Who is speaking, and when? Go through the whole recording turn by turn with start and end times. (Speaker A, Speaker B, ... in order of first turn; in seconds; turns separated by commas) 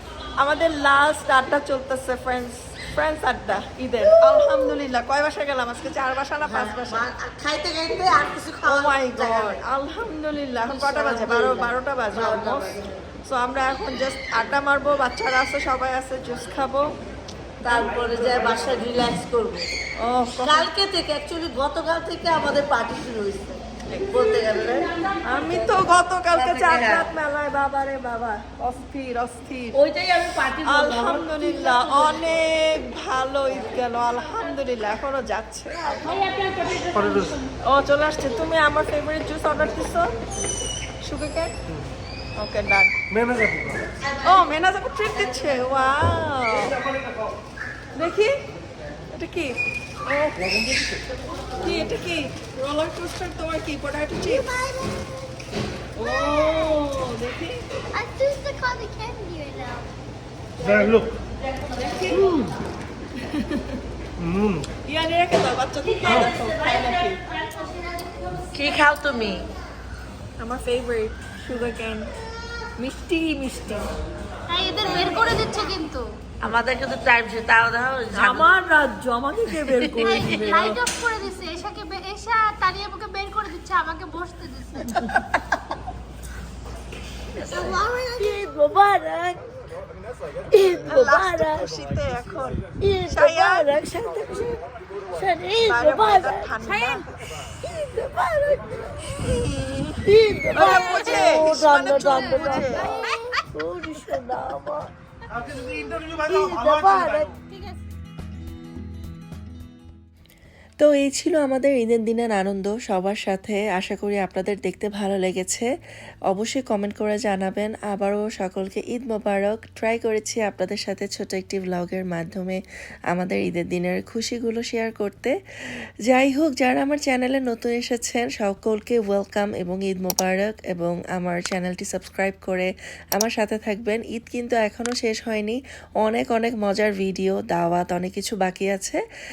Speaker A: 0.4-7.1, Speaker B: 4.3-4.6, Speaker B: 6.4-9.6, Speaker A: 8.7-16.9, Speaker B: 10.7-13.0, Speaker A: 17.6-18.7, Speaker B: 17.6-19.7, Speaker A: 20.0-20.7, Speaker B: 20.4-24.9, Speaker A: 23.9-24.1, Speaker C: 24.3-25.8, Speaker A: 25.2-29.8, Speaker B: 26.3-27.1, Speaker B: 29.7-32.2, Speaker A: 30.6-36.0, Speaker C: 36.0-37.5, Speaker D: 36.9-37.4, Speaker A: 37.6-40.1, Speaker A: 41.0-41.5, Speaker A: 42.4-42.9, Speaker D: 43.1-43.8, Speaker A: 44.2-46.8, Speaker A: 47.9-48.3, Speaker A: 49.1-50.8, Speaker A: 51.6-54.5, Speaker E: 54.3-55.0, Speaker A: 56.0-57.6, Speaker E: 56.0-56.8, Speaker E: 57.9-59.9, Speaker D: 60.6-61.2, Speaker A: 61.8-62.3, Speaker B: 62.0-62.5, Speaker A: 63.2-63.8, Speaker D: 64.2-64.6, Speaker A: 64.8-67.2, Speaker B: 66.1-66.3, Speaker B: 68.5-69.5, Speaker A: 70.4-72.1, Speaker A: 72.8-73.9, Speaker C: 74.5-76.1, Speaker B: 76.4-78.5, Speaker A: 78.1-80.8, Speaker B: 79.6-80.5, Speaker C: 80.0-84.9, Speaker B: 84.8-85.4, Speaker B: 87.4-89.4, Speaker B: 90.5-91.7, Speaker A: 90.9-93.7, Speaker B: 92.8-94.6, Speaker B: 95.1-96.5, Speaker A: 95.6-97.1, Speaker C: 96.6-97.0, Speaker B: 97.6-99.2, Speaker A: 99.2-100.0, Speaker B: 100.0-104.9, Speaker A: 100.5-103.0, Speaker C: 101.9-102.7, Speaker D: 105.5-107.0, Speaker B: 106.1-107.4, Speaker C: 107.5-107.8, Speaker F: 110.8-115.7, Speaker F: 116.3-122.6, Speaker F: 123.1-125.3, Speaker F: 126.0-139.0